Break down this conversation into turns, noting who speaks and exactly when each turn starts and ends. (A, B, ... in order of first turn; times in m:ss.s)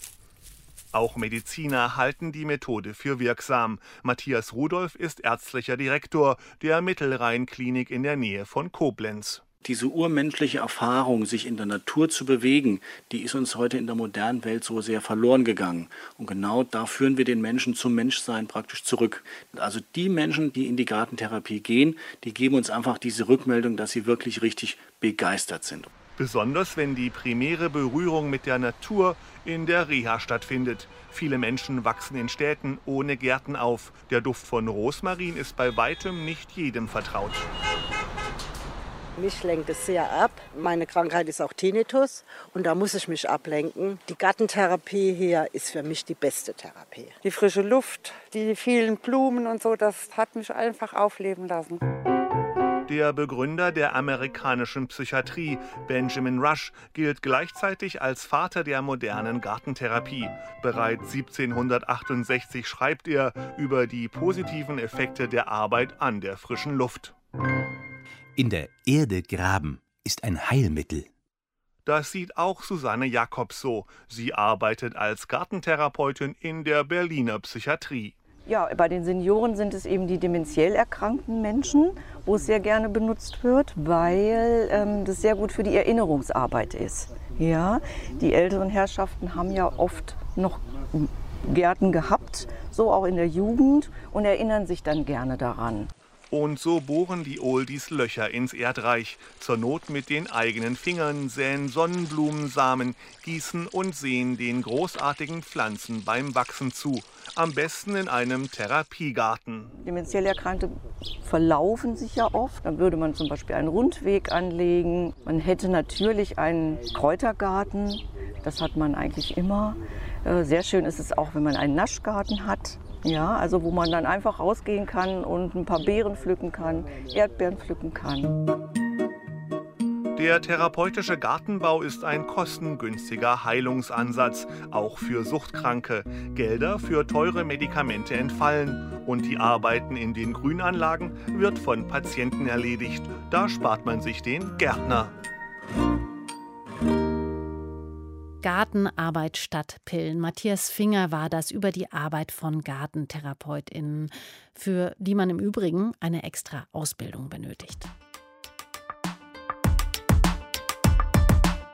0:00.9-0:09.4 A
0:09.6-0:26.0 B
0:26.2-0:37.5 A
0:39.2-0:47.2 C
0:47.2-0:51.8 D
0:52.9-1:07.2 A
1:08.4-1:11.1 E
1:11.9-1:18.2 A
1:18.5-1:35.9 F
1:36.3-1:49.7 A
1:49.8-2:08.4 F
2:10.2-2:25.1 A
2:28.4-2:37.9 G